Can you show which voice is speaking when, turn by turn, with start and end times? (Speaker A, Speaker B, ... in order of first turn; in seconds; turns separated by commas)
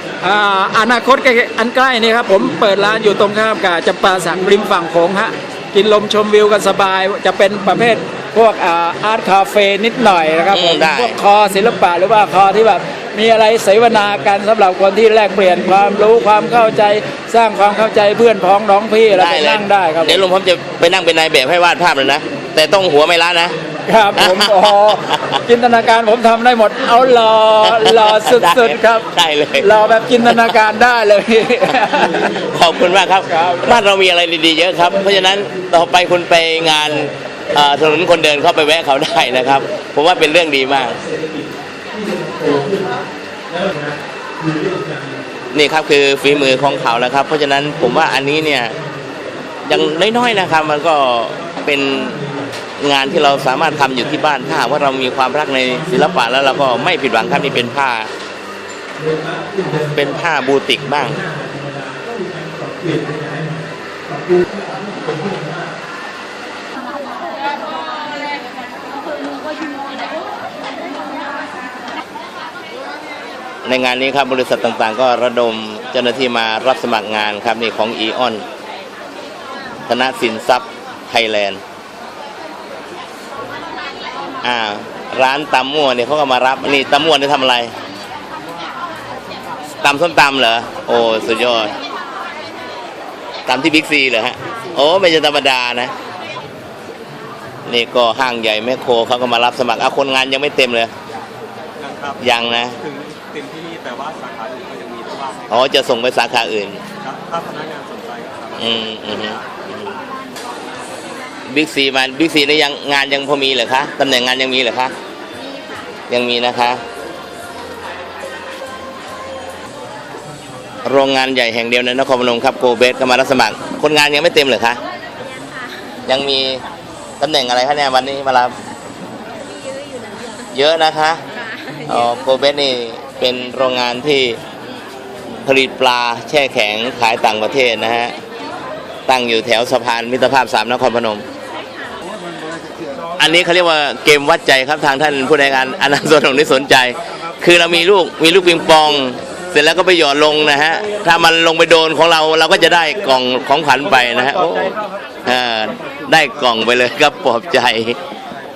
Speaker A: 0.2-20.2, Speaker B: 10.5-11.2, Speaker B: 19.1-23.6, Speaker A: 23.9-32.5, Speaker B: 24.2-25.4, Speaker B: 27.6-29.7, Speaker B: 30.2-30.6, Speaker B: 32.4-41.0, Speaker A: 33.3-33.8, Speaker B: 45.5-48.8, Speaker B: 49.7-52.3, Speaker B: 52.8-58.1, Speaker B: 59.8-61.3, Speaker B: 73.7-78.4, Speaker B: 79.9-81.6, Speaker B: 84.4-87.7, Speaker B: 89.8-91.8, Speaker B: 93.5-95.9, Speaker B: 97.7-100.9, Speaker B: 102.2-102.8, Speaker C: 103.1-105.3, Speaker B: 105.5-106.8, Speaker C: 107.2-108.4, Speaker B: 108.5-110.0, Speaker B: 111.5-114.9, Speaker B: 116.1-116.8, Speaker B: 120.8-124.8, Speaker B: 126.1-126.6, Speaker B: 127.2-128.6, Speaker B: 130.5-131.2, Speaker B: 131.8-134.4, Speaker B: 135.4-138.2, Speaker B: 139.1-141.2, Speaker B: 143.2-158.0